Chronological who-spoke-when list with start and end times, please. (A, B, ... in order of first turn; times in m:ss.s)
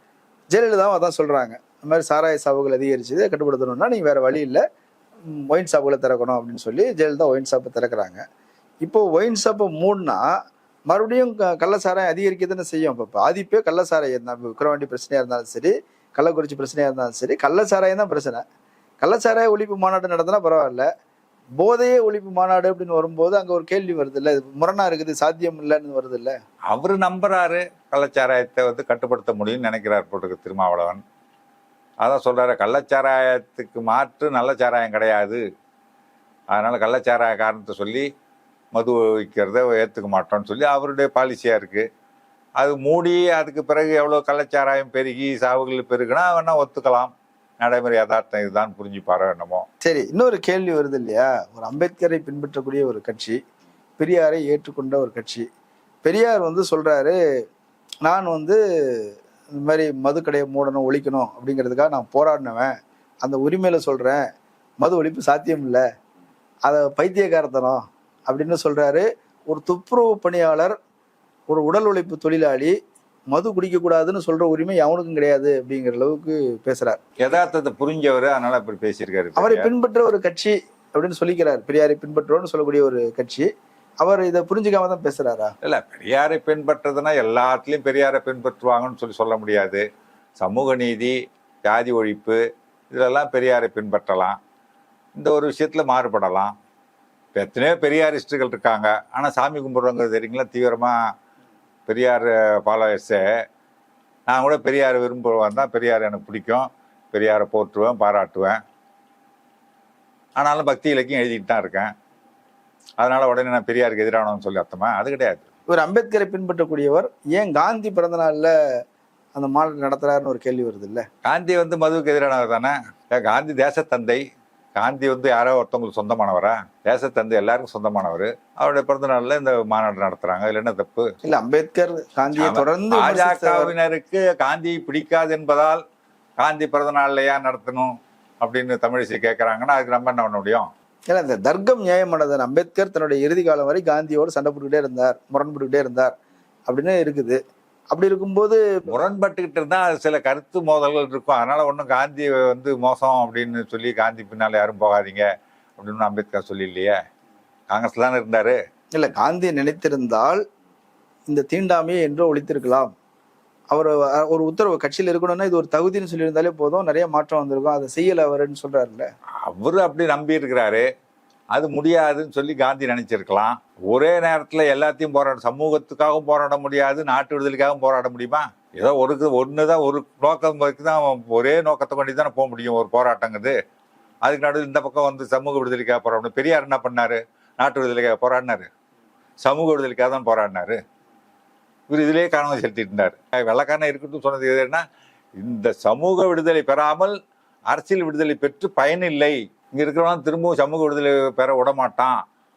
0:00.5-0:04.6 A
0:05.3-0:08.2 A
0:08.8-0:10.3 A
0:10.9-0:18.4 A
0:19.0-0:20.9 A
0:21.6-0:26.4 A
0:26.7-0:31.0 B
0:32.0-0:35.4 B
0:36.5-0:38.1 B
0:38.7-0:41.8 B
0:42.6-0:49.6 B
0:49.8-0:53.4 A
0:54.0-0:55.5 A
0:56.0-0:57.2 A
0:58.0-1:04.2 A
1:04.8-1:05.8 A
1:06.6-1:10.8 A
1:11.5-1:12.8 A
1:13.3-1:17.0 A
1:17.2-1:19.7 B
1:19.4-1:23.5 A
1:24.0-1:25.5 A
1:25.6-1:29.8 B
1:30.4-1:31.2 B
1:31.7-1:32.4 B
1:32.9-1:34.4 B
1:35.2-1:36.5 B
1:37.4-1:41.0 B
1:41.9-1:43.2 B
1:44.3-1:48.6 B
1:50.4-1:51.9 B
1:53.0-1:55.4 B
1:55.7-1:58.5 A
1:59.3-2:01.1 A
2:01.2-2:04.2 B
2:04.8-2:11.1 B
2:11.2-2:13.7 A
2:12.3-2:15.8 B
2:16.4-2:20.7 B
2:21.1-2:26.1 A
2:26.7-2:27.4 A
2:27.9-2:28.9 A
2:28.9-2:35.3 B
2:35.8-2:37.0 B
2:37.7-2:38.6 B
2:38.9-2:40.4 A
2:41.3-2:42.9 A
2:43.7-2:49.1 A
2:49.5-2:50.9 B
2:51.5-3:03.5 B
3:04.2-3:08.7 B
3:09.4-3:10.8 B
3:11.9-3:14.8 B
3:15.4-3:17.1 B
3:17.7-3:22.2 B